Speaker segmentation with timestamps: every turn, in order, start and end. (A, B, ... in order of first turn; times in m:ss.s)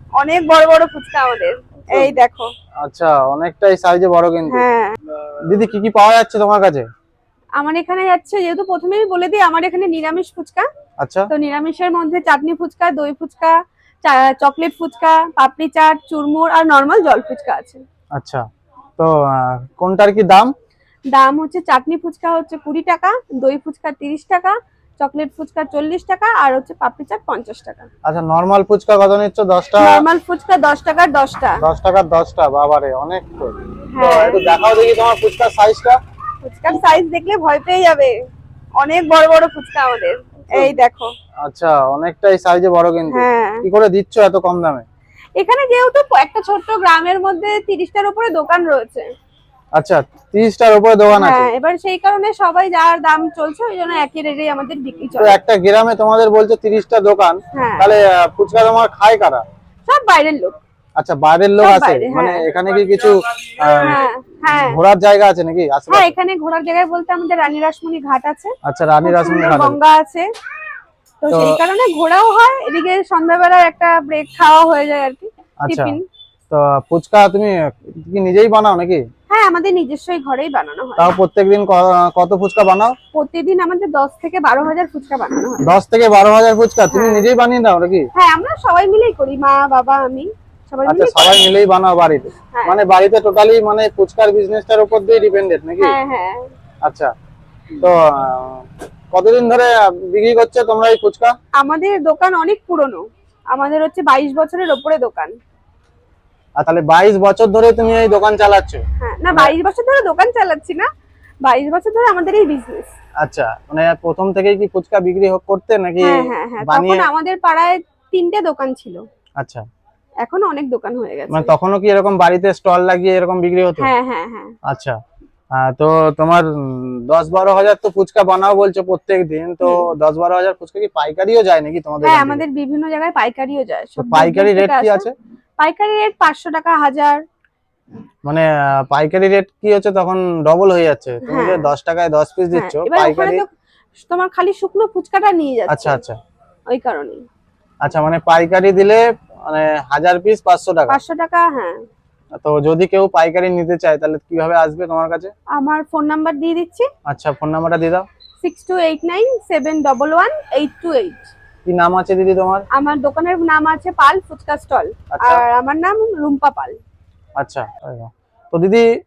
0:00.2-0:02.5 A
0:01.8-0:02.2 B
0:02.8-0:04.6 B
0:04.5-0:05.0 A
0:05.5-0:06.9 B
0:07.6-0:10.7 A
0:11.0-0:11.3 B
0:11.3-0:17.8 A
0:18.2-0:18.5 B
0:19.0-0:20.5 B
0:21.1-0:27.9 A
0:28.0-0:30.0 B
0:29.8-0:31.6 A
0:31.6-0:36.0 B
0:33.9-0:34.4 A
0:36.4-0:38.2 A
0:38.8-0:41.1 A
0:40.5-0:40.8 B
0:41.4-0:44.8 B
0:43.1-0:43.6 A
0:45.4-0:49.1 A
0:49.8-0:51.5 B
0:51.2-0:55.4 A
0:55.2-0:59.4 B
0:57.6-0:57.9 A
0:59.9-1:00.6 A
1:01.0-1:06.2 B
1:01.6-1:02.4 A
1:03.8-1:04.8 A
1:05.9-1:08.5 A
1:08.6-1:09.8 B
1:09.0-1:10.3 A
1:11.2-1:16.0 A
1:11.3-1:11.6 B
1:15.6-1:16.0 B
1:16.5-1:19.0 B
1:19.3-1:21.1 A
1:21.0-1:23.0 B
1:23.1-1:25.7 A
1:25.6-1:28.1 B
1:26.9-1:27.3 A
1:28.2-1:31.4 A
1:30.9-1:36.0 B
1:32.5-1:32.8 A
1:35.8-1:36.4 A
1:36.8-1:37.1 B
1:37.8-1:41.4 B
1:41.6-1:45.4 A
1:46.6-1:49.6 B
1:49.0-1:50.9 A
1:51.4-1:52.9 A
1:53.2-1:57.1 B
1:56.0-1:59.0 A
1:59.4-1:59.6 B
2:00.2-2:01.5 A
2:01.3-2:03.9 B
2:03.8-2:04.5 A
2:04.6-2:05.0 B
2:05.6-2:12.4 B
2:09.6-2:09.9 A
2:12.0-2:15.1 A
2:14.0-2:15.1 B
2:15.6-2:17.2 A
2:18.3-2:23.4 B
2:21.2-2:21.7 A
2:22.5-2:23.5 A
2:24.0-2:26.0 A
2:25.7-2:26.2 B
2:26.7-2:27.2 A
2:27.8-2:31.0 B
2:30.9-2:31.8 A
2:32.4-2:35.3 B
2:35.5-2:36.9 A
2:37.1-2:38.1 B
2:38.4-2:41.3 A
2:41.7-2:42.6 B
2:42.7-2:46.8 A
2:45.1-2:45.4 B
2:47.4-2:48.9 B